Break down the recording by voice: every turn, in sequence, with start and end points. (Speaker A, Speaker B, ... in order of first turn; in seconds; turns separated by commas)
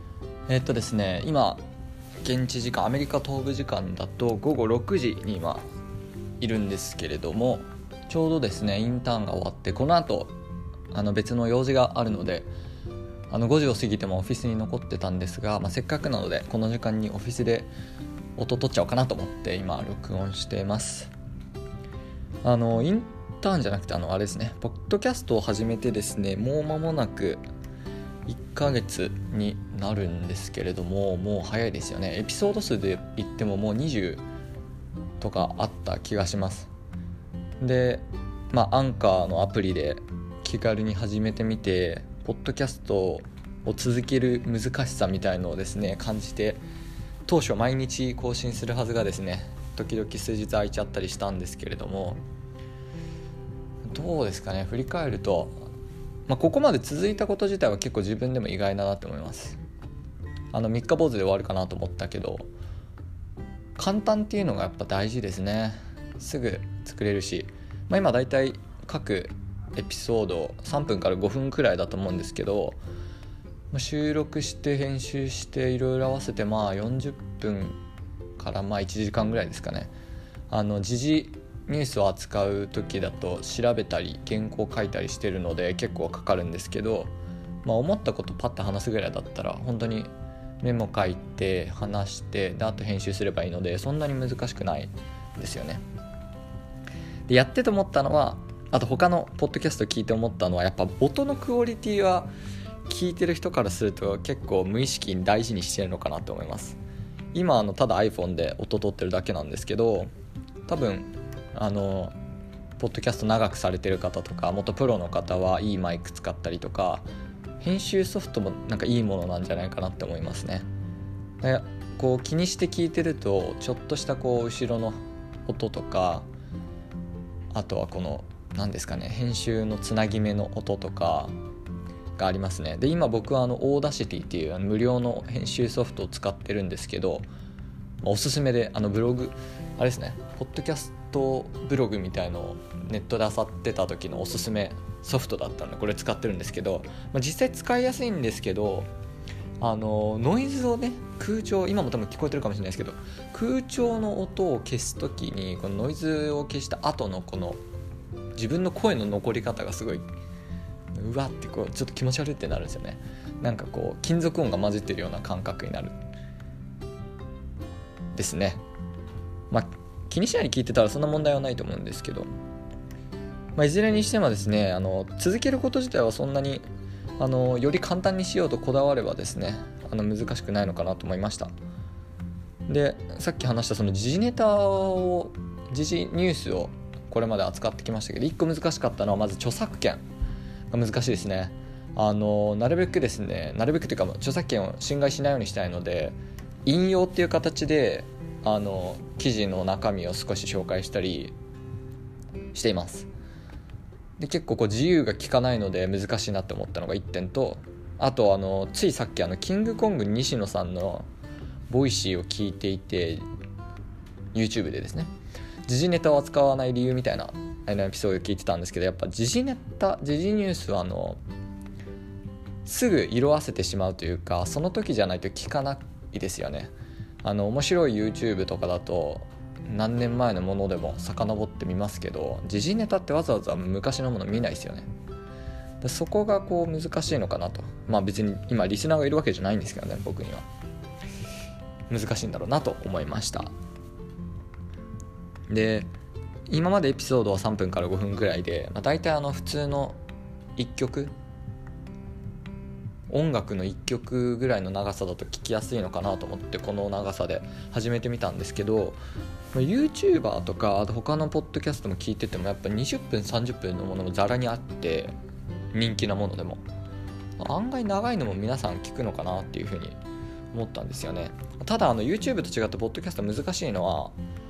Speaker A: 0.5-1.6, Speaker A: 2.2-5.6, Speaker A: 6.4-10.3, Speaker A: 10.9-12.5, Speaker A: 13.3-17.7, Speaker A: 18.4-21.1, Speaker A: 22.4-27.4, Speaker A: 28.2-34.2, Speaker A: 35.2-36.7, Speaker A: 37.6-46.6, Speaker A: 47.2-52.2, Speaker A: 53.9-55.6, Speaker A: 56.3-59.6, Speaker A: 60.5-62.5, Speaker A: 63.8-72.8, Speaker A: 73.7-77.8, Speaker A: 78.4-79.9, Speaker A: 80.5-87.1, Speaker A: 87.6-90.1, Speaker A: 90.6-95.8, Speaker A: 97.3-102.3, Speaker A: 102.9-106.8, Speaker A: 107.3-110.1, Speaker A: 110.7-112.1, Speaker A: 112.8-117.0, Speaker A: 117.6-120.7, Speaker A: 121.4-126.2, Speaker A: 127.5-131.3, Speaker A: 132.2-137.2, Speaker A: 138.0-148.9, Speaker A: 149.6-157.6, Speaker A: 158.3-160.1, Speaker A: 160.9-165.9, Speaker A: 168.1-168.6, Speaker A: 169.5-172.3, Speaker A: 173.6-176.6, Speaker A: 177.2-181.5, Speaker A: 182.7-190.0, Speaker A: 190.7-201.3, Speaker A: 202.5-203.1, Speaker A: 204.2-211.1, Speaker A: 211.7-213.2, Speaker A: 214.3-215.1, Speaker A: 215.7-221.2, Speaker A: 222.6-226.7, Speaker A: 227.2-234.9, Speaker A: 235.8-240.4, Speaker A: 241.9-243.5, Speaker A: 245.5-245.9, Speaker A: 246.5-250.0, Speaker A: 250.6-251.1, Speaker A: 253.1-259.0, Speaker A: 259.5-265.1, Speaker A: 265.7-266.6, Speaker A: 267.4-270.0, Speaker A: 270.5-274.1